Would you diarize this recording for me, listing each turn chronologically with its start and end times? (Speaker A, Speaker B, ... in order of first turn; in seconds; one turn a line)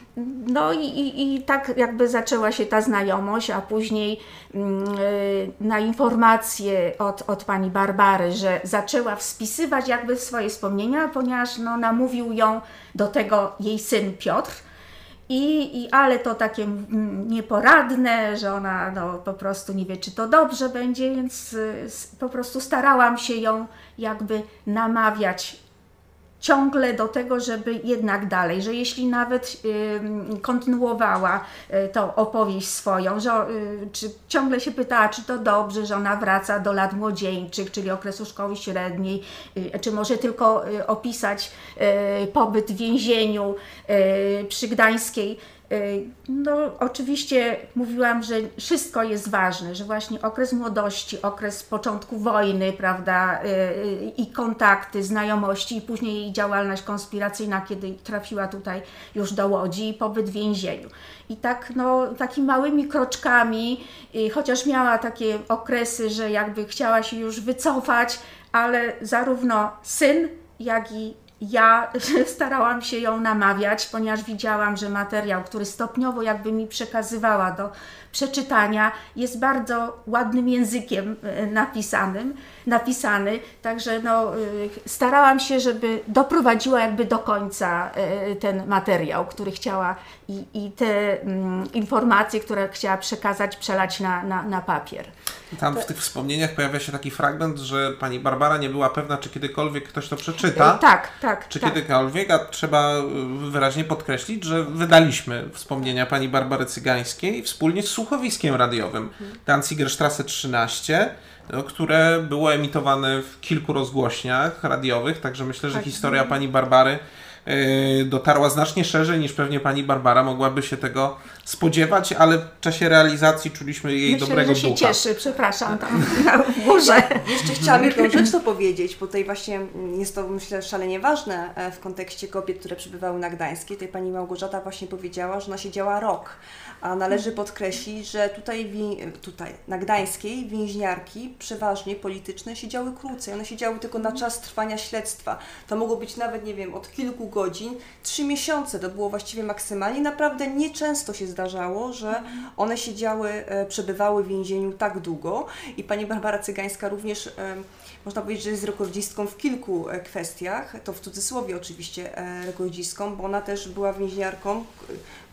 Speaker A: 0.1-14.6
Speaker A: 15.3-25.6
Speaker A: 26.4-95.1
Speaker B: 95.5-100.8
Speaker A: 100.5-101.8
Speaker B: 101.5-125.0
Speaker A: 115.8-116.3
Speaker A: 124.1-128.2
Speaker C: 126.8-165.0
Speaker B: 127.5-127.8